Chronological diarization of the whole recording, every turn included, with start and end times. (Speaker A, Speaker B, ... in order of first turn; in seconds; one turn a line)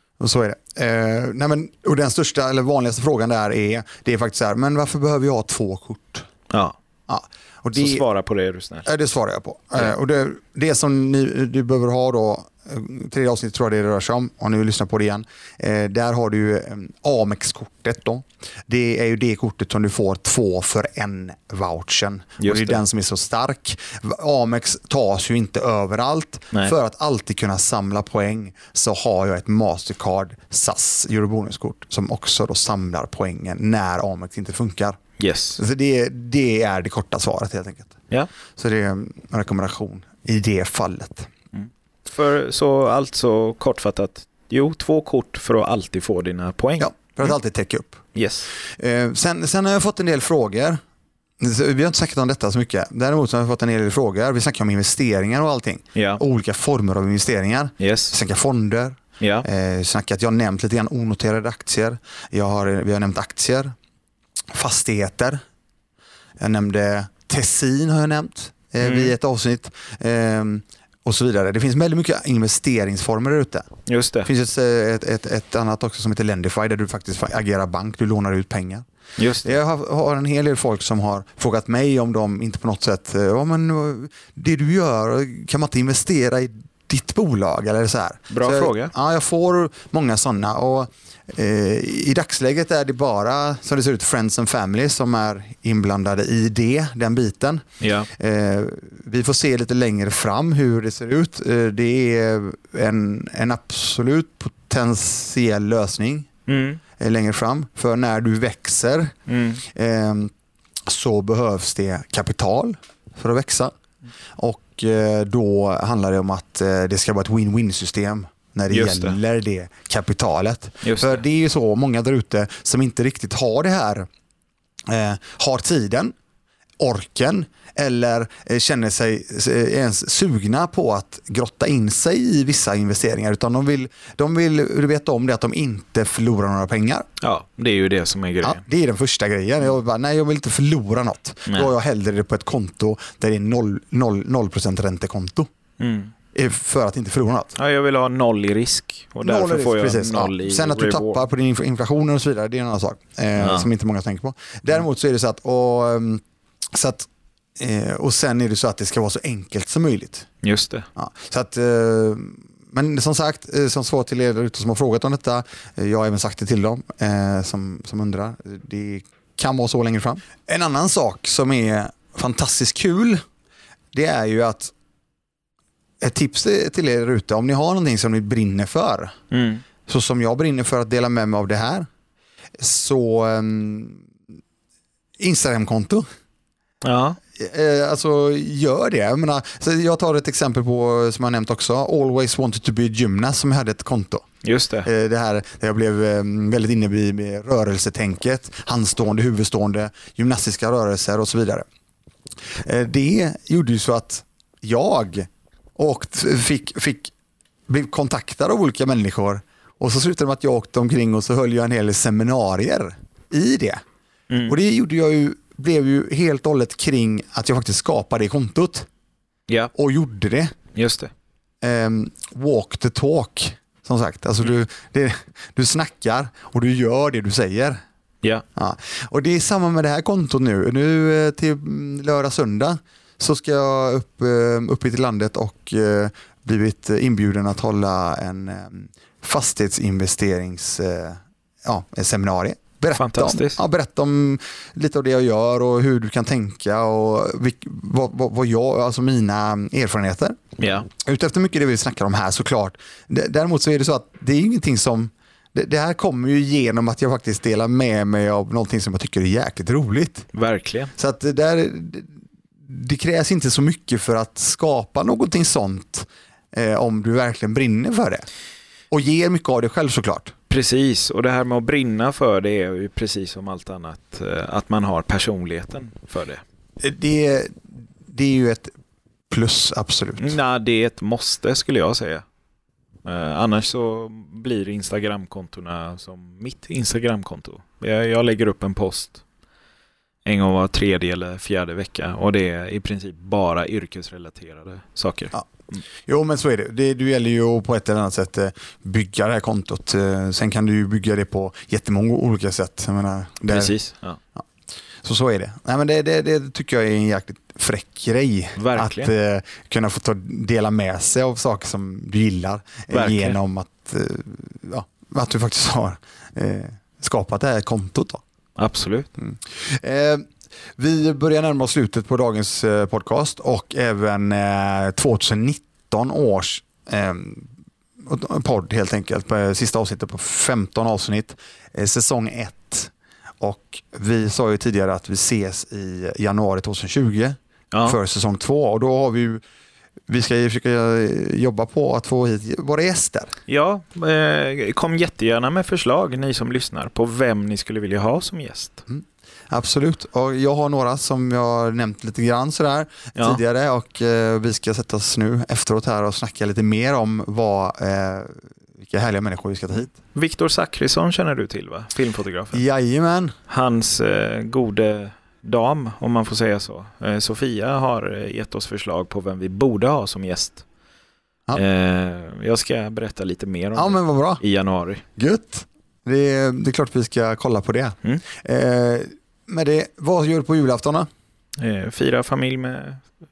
Speaker A: 0.2-6.2
Speaker B: 6.5-6.8
Speaker A: 7.1-8.0
Speaker B: 7.7-8.9
Speaker A: 8.8-35.0
Speaker B: 22.4-22.8
Speaker B: 35.2-35.6
Speaker A: 35.6-37.9
Speaker A: 38.5-41.3
Speaker B: 41.5-47.3
Speaker A: 46.8-48.0
Speaker B: 48.1-48.5
Speaker A: 48.6-50.8
Speaker A: 51.4-63.7
Speaker B: 55.9-56.2
Speaker B: 57.8-58.1
Speaker B: 59.2-59.5
Speaker A: 64.5-65.4
Speaker A: 66.4-73.7
Speaker B: 68.8-69.1
Speaker B: 73.9-74.3
Speaker A: 74.2-78.8
Speaker B: 79.2-79.6
Speaker A: 79.4-106.3
Speaker B: 88.3-88.9
Speaker B: 97.8-98.1
Speaker B: 106.5-106.8
Speaker A: 107.0-109.1
Speaker B: 109.3-109.6
Speaker A: 109.6-110.3
Speaker A: 110.9-113.7
Speaker A: 114.4-124.1
Speaker B: 118.7-119.2
Speaker B: 120.8-121.2
Speaker A: 124.9-126.1
Speaker A: 126.8-137.1
Speaker B: 137.2-138.6
Speaker A: 138.4-145.5
Speaker B: 145.8-146.1
Speaker A: 146.3-147.5
Speaker B: 147.6-151.2
Speaker A: 149.2-160.3
Speaker B: 153.4-153.7
Speaker B: 160.4-160.9
Speaker A: 160.9-173.2
Speaker A: 173.9-174.7
Speaker A: 176.0-179.1
Speaker B: 179.3-179.6
Speaker A: 179.8-181.8
Speaker A: 182.6-184.0
Speaker A: 185.2-186.0
Speaker B: 186.8-187.2
Speaker A: 187.4-194.2
Speaker B: 194.4-194.9
Speaker A: 194.8-201.7
Speaker A: 202.6-207.1
Speaker A: 207.7-213.8
Speaker B: 214.3-214.6
Speaker A: 214.4-218.9
Speaker A: 219.7-220.5
Speaker B: 220.7-221.1
Speaker A: 221.6-227.8
Speaker A: 228.6-250.4
Speaker B: 242.9-243.6
Speaker B: 250.6-250.9
Speaker A: 250.9-260.3
Speaker B: 260.3-260.9
Speaker A: 260.9-262.1
Speaker A: 262.7-268.2
Speaker A: 268.9-270.3
Speaker B: 270.5-276.4
Speaker A: 276.8-278.7
Speaker A: 279.3-280.4
Speaker B: 280.2-282.2
Speaker B: 283.0-289.2
Speaker B: 290.2-295.8
Speaker A: 296.1-303.8
Speaker B: 303.5-304.2
Speaker A: 305.0-318.2
Speaker B: 308.6-309.1
Speaker B: 312.9-313.4
Speaker B: 318.6-319.1
Speaker A: 319.2-320.2
Speaker A: 320.8-327.5
Speaker A: 328.0-339.4
Speaker B: 337.7-338.0
Speaker A: 340.1-343.3
Speaker B: 343.5-348.8
Speaker A: 348.9-359.9
Speaker B: 359.9-362.6
Speaker A: 362.5-363.3
Speaker B: 363.5-370.6
Speaker B: 371.5-375.0
Speaker A: 373.7-374.4
Speaker A: 375.2-381.1
Speaker B: 381.6-383.0